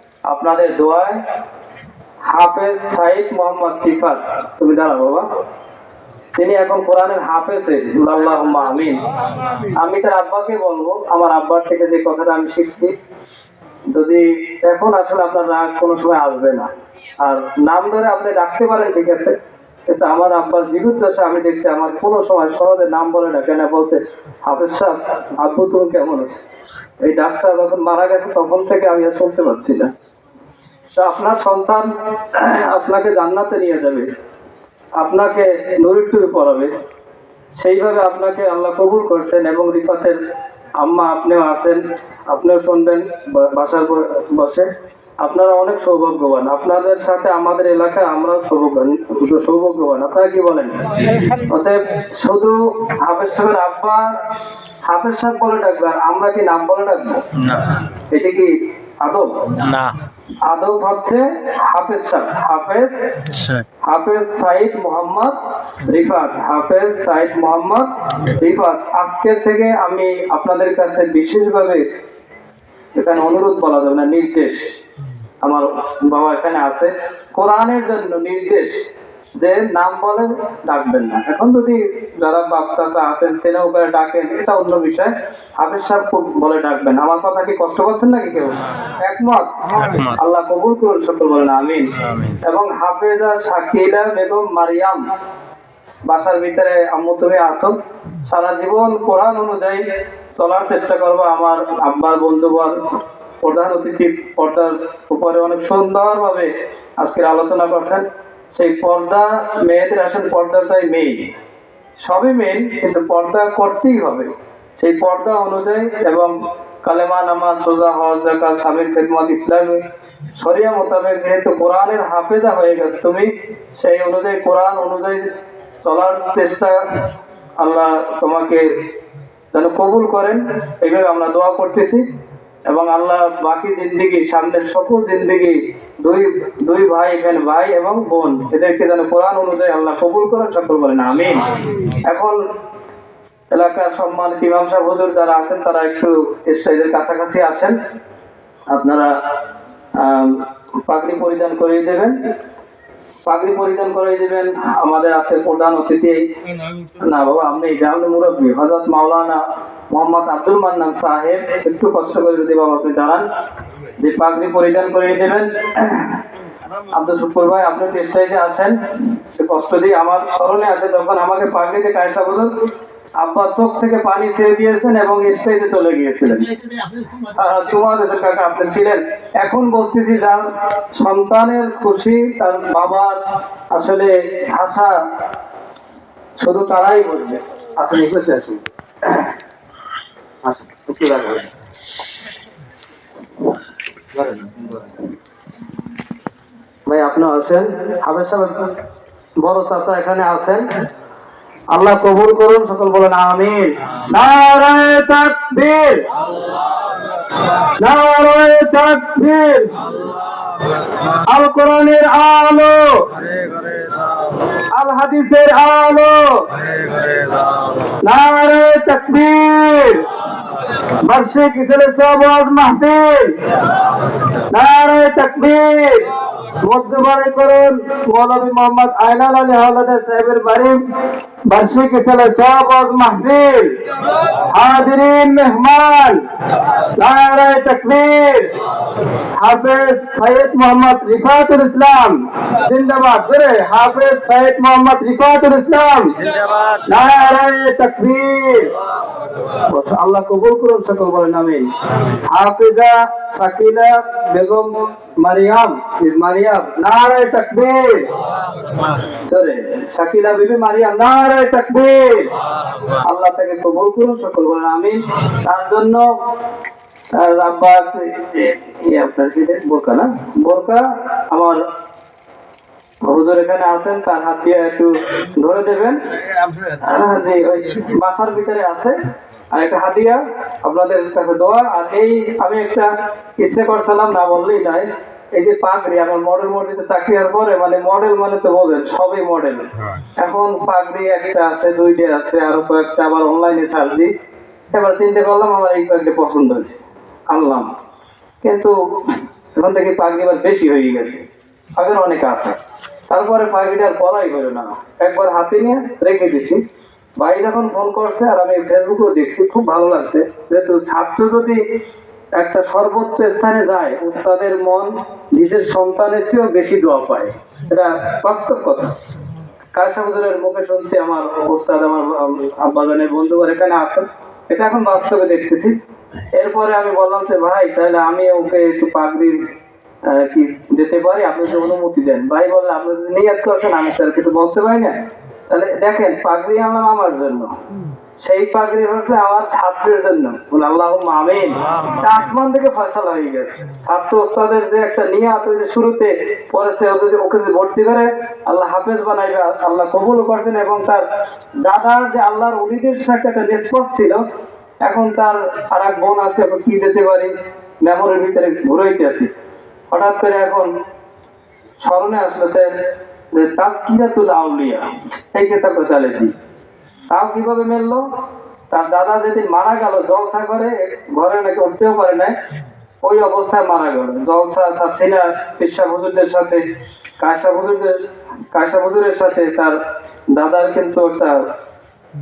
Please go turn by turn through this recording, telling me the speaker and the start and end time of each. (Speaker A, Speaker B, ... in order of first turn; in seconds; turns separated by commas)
Speaker A: 0.3-1.2, Speaker A: 2.2-5.3, Speaker A: 6.4-9.0, Speaker A: 9.6-12.9, Speaker A: 13.9-16.7, Speaker A: 17.2-19.3, Speaker A: 19.9-26.4, Speaker A: 27.0-29.9, Speaker A: 31.0-34.1, Speaker A: 35.0-36.7, Speaker A: 37.6-40.2, Speaker A: 40.8-44.7, Speaker A: 45.2-54.2, Speaker A: 54.9-57.2, Speaker B: 57.4-57.7, Speaker A: 58.1-59.3, Speaker B: 59.6-60.0, Speaker A: 60.4-62.9, Speaker B: 63.3-63.6, Speaker A: 63.8-71.8, Speaker A: 73.0-74.6, Speaker A: 75.4-78.8, Speaker A: 79.4-91.9, Speaker B: 89.8-90.1, Speaker B: 92.0-92.4, Speaker A: 92.4-95.0, Speaker A: 96.1-97.7, Speaker A: 98.2-99.8, Speaker A: 100.3-102.8, Speaker A: 103.4-111.3, Speaker A: 112.0-119.8, Speaker A: 120.4-125.2, Speaker A: 125.8-127.0, Speaker A: 127.6-128.8, Speaker A: 129.5-132.0, Speaker A: 132.7-141.4, Speaker A: 142.0-142.4, Speaker A: 143.5-147.7, Speaker A: 148.7-149.1, Speaker A: 150.0-152.1, Speaker A: 153.2-156.2, Speaker A: 157.0-163.2, Speaker A: 164.0-166.2, Speaker A: 166.9-168.8, Speaker A: 169.4-172.5, Speaker A: 173.2-176.6, Speaker A: 177.2-183.2, Speaker A: 183.7-184.9, Speaker A: 186.4-189.3, Speaker A: 190.4-191.5, Speaker A: 194.1-194.7, Speaker A: 196.9-198.7, Speaker A: 199.4-200.6, Speaker A: 201.7-206.1, Speaker A: 207.8-209.8, Speaker A: 211.3-213.1, Speaker B: 213.2-214.3, Speaker A: 214.7-216.5, Speaker B: 216.8-217.4, Speaker A: 218.0-220.1, Speaker A: 221.0-223.4, Speaker A: 224.5-226.1, Speaker A: 226.6-230.8, Speaker A: 231.5-233.8, Speaker A: 234.5-236.2, Speaker A: 237.0-238.5, Speaker A: 239.3-246.2, Speaker B: 246.2-246.8, Speaker A: 246.9-248.7, Speaker A: 249.7-258.1, Speaker A: 259.2-262.3, Speaker A: 263.0-266.1, Speaker A: 267.1-271.6, Speaker A: 273.1-276.0, Speaker A: 276.5-278.9, Speaker A: 279.5-294.1, Speaker A: 294.7-297.7, Speaker A: 298.4-301.2, Speaker A: 301.8-302.6, Speaker A: 303.1-306.6, Speaker A: 307.2-311.6, Speaker A: 312.4-318.9, Speaker A: 319.7-325.8, Speaker A: 326.3-329.5, Speaker A: 330.1-335.0, Speaker A: 335.5-337.6, Speaker A: 338.2-351.1, Speaker B: 341.6-342.2, Speaker A: 351.6-354.2, Speaker A: 354.8-357.3, Speaker A: 357.8-359.3, Speaker A: 359.9-360.7, Speaker A: 361.8-362.7, Speaker A: 363.3-366.3, Speaker A: 367.1-368.0, Speaker A: 368.7-372.3, Speaker A: 373.0-376.6, Speaker A: 377.2-379.8, Speaker A: 380.3-381.4